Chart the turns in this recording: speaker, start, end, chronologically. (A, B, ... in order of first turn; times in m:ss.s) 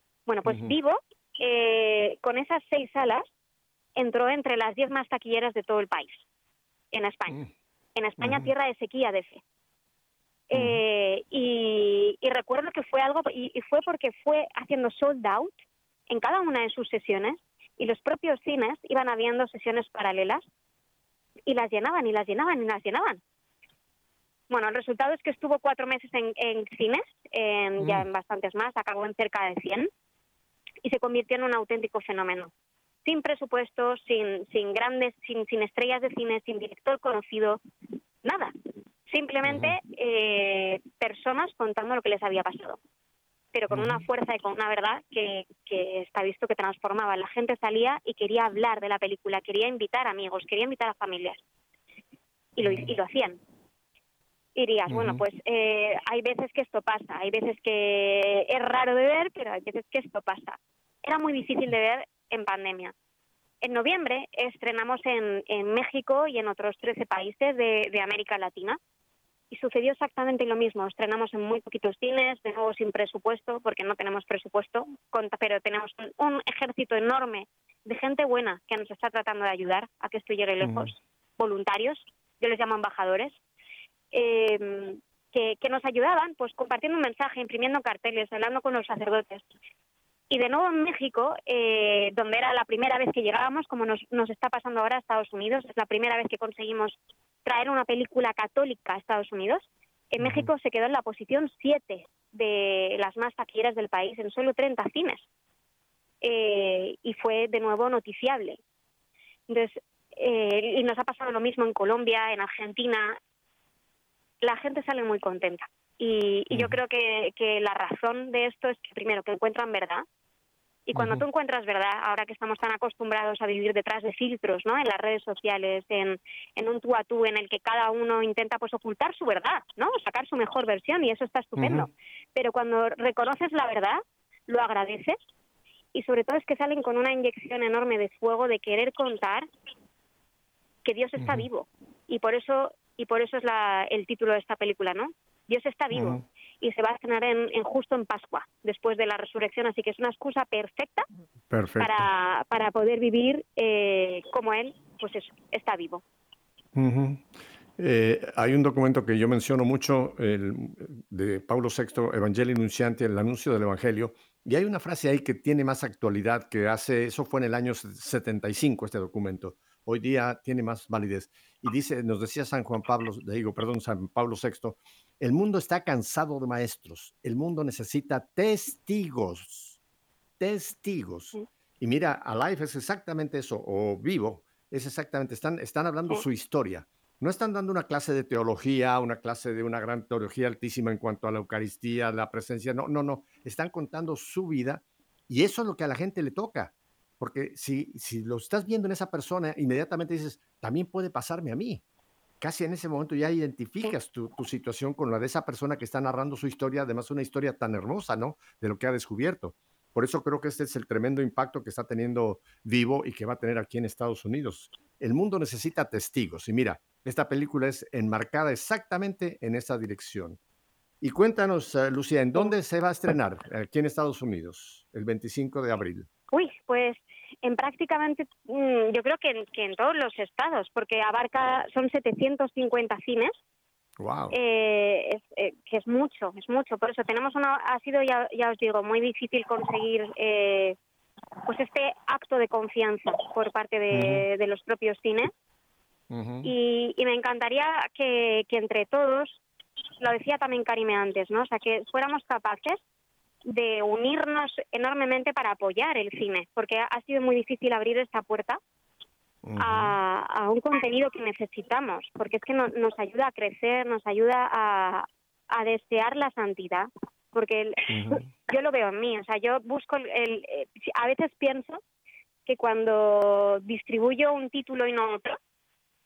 0:00.3-0:03.3 A
0:00.4-0:00.7 B
0:04.0-0:06.2 A
0:06.9-0:07.4 A
0:08.0-0:09.4 A
0:08.2-0:08.5 B
0:10.5-0:15.6 A
0:10.5-0:10.8 B
0:16.1-0:20.4 A
0:21.5-0:23.2 A
0:24.5-0:29.9 A
0:27.8-0:28.1 B
0:30.8-0:32.5 A
0:33.0-0:37.6 A
0:38.2-0:38.5 A
0:39.1-0:42.8 A
0:39.4-0:39.8 B
0:43.5-0:51.4 A
0:43.7-0:44.0 B
0:52.6-0:53.4 A
0:52.6-0:52.9 B
0:54.6-1:02.9 A
0:54.9-0:55.2 B
1:03.6-1:08.8 A
1:09.5-1:23.4 A
1:20.6-1:20.9 B
1:24.1-1:29.4 A
1:30.3-1:45.2 A
1:40.2-1:40.5 B
1:46.2-1:48.6 A
1:49.5-1:53.2 A
1:54.4-2:00.0 A
1:56.5-1:56.8 B
2:00.9-2:15.2 A
2:00.9-2:01.2 B
2:11.6-2:11.9 B
2:15.9-2:19.5 A
2:20.8-2:31.0 A
2:21.2-2:21.5 B
2:25.9-2:26.2 B
2:31.5-2:32.1 B
2:31.8-2:36.0 A
2:36.7-2:37.2 B
2:37.8-2:59.8 B
3:00.4-3:21.8 B
3:22.4-3:40.4 B
3:41.0-3:46.1 B
3:46.3-3:53.3 A
3:54.0-3:54.3 B
3:54.3-4:00.8 A
4:01.4-4:05.3 A
4:03.9-4:04.2 B
4:06.1-4:06.5 B
4:06.4-4:09.4 A
4:10.0-4:12.8 A
4:13.4-4:18.6 A
4:19.4-4:19.9 B
4:19.6-4:31.8 A
4:27.9-4:28.3 B
4:32.4-4:35.4 A